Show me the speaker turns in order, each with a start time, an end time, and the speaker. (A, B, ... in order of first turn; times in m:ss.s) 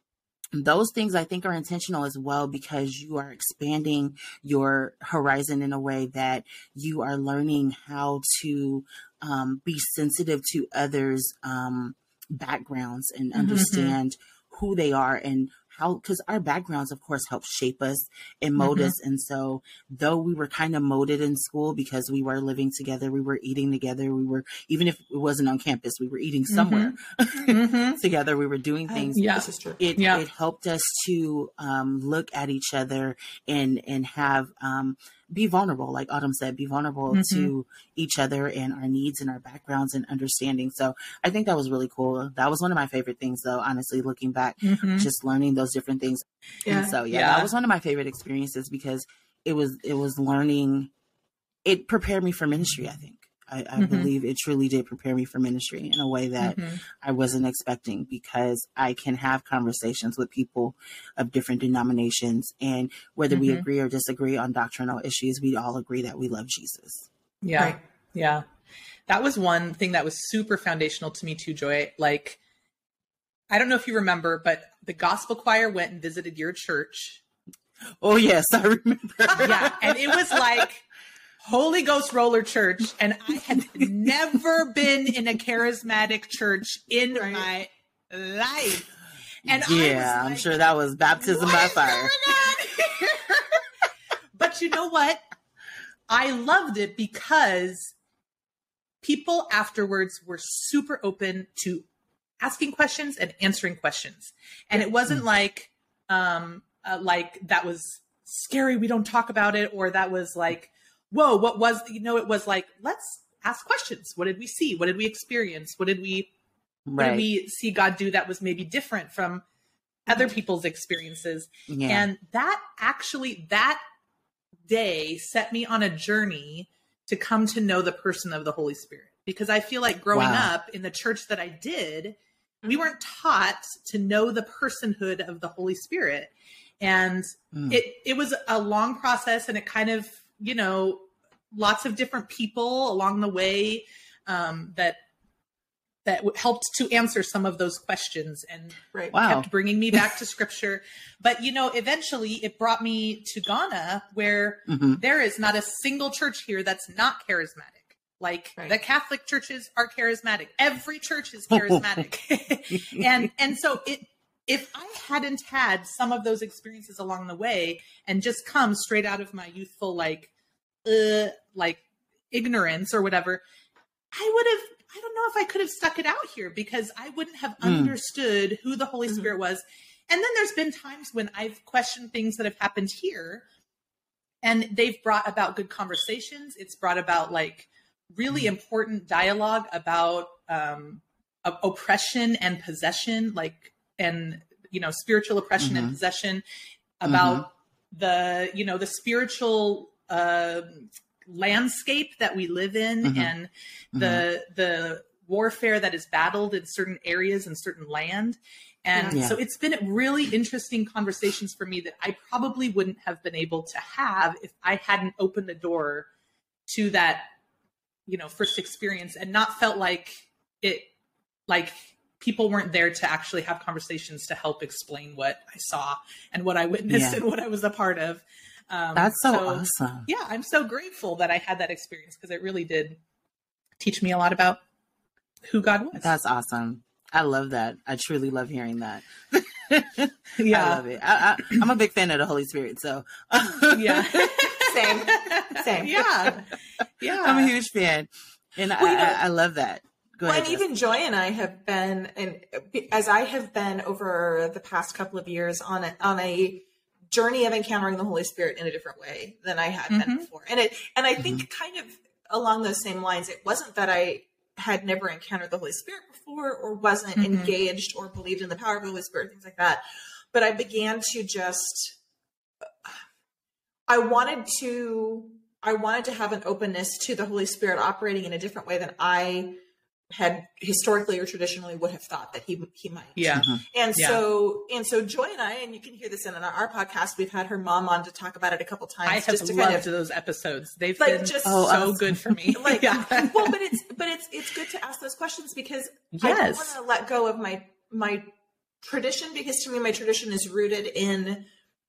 0:00.5-0:29.2 A
0:13.4-0:14.0 B
0:18.6-0:18.9 B
0:26.5-0:27.0 B
0:27.5-0:28.0 B
0:28.9-0:29.8 C
0:29.1-0:30.2 B
0:29.8-0:50.9 A
0:37.1-0:37.5 B
0:44.6-0:45.1 B
0:46.6-0:46.9 C
0:47.1-0:47.5 B
0:51.6-1:07.1 A
0:53.8-0:54.1 B
0:56.4-0:56.8 B
1:03.3-1:03.6 B
1:07.4-1:08.4 B
1:09.1-1:12.4 B
1:13.5-1:17.2 B
1:18.0-1:20.6 A
1:19.3-1:20.8 B
1:21.4-1:28.9 B
1:23.6-1:23.9 A
1:27.1-1:27.5 C
1:29.4-1:30.5 B
1:29.5-1:32.4 A
1:31.2-1:33.6 B
1:34.4-1:35.2 B
1:36.1-1:37.9 B
1:39.0-1:41.8 B
1:42.4-1:56.3 B
1:56.9-1:57.3 A
1:57.0-1:59.4 B
2:00.0-2:03.8 B
2:01.7-2:02.1 A
2:04.7-2:25.0 B
2:10.1-2:10.5 A
2:12.6-2:12.9 C
2:17.5-2:17.8 A
2:26.0-2:50.3 B
2:29.1-2:30.0 A
2:34.7-2:35.0 A
2:41.5-2:42.1 A
2:50.8-2:53.4 B
2:54.1-3:03.4 B
2:57.6-2:57.9 A
3:04.4-3:16.4 B
3:15.6-3:16.0 A
3:17.0-3:36.1 B
3:17.0-3:17.4 A
3:23.0-3:23.3 A
3:23.9-3:24.2 A
3:28.9-3:29.2 C
3:29.1-3:29.4 A
3:36.7-3:37.3 B
3:38.1-3:40.9 B
3:41.5-3:53.0 B
3:46.9-3:47.2 A
3:48.9-3:50.1 A
3:53.8-3:54.6 B
3:55.5-3:56.1 B
3:56.0-4:04.5 A
4:00.4-4:00.8 B
4:03.7-4:07.5 B
4:04.6-4:06.4 C
4:07.1-4:10.6 A
4:08.8-4:09.2 C
4:10.2-4:32.0 C
4:19.9-4:20.2 B
4:21.2-4:21.4 A
4:27.2-4:27.5 B
4:33.9-4:39.6 C
4:40.1-4:49.9 C
4:43.2-4:44.2 B
4:43.3-4:43.6 A
4:49.0-4:53.6 B
4:51.0-4:51.8 C
4:51.4-4:52.2 A
4:52.5-4:58.3 C
4:56.1-4:56.7 B
4:58.8-5:01.5 C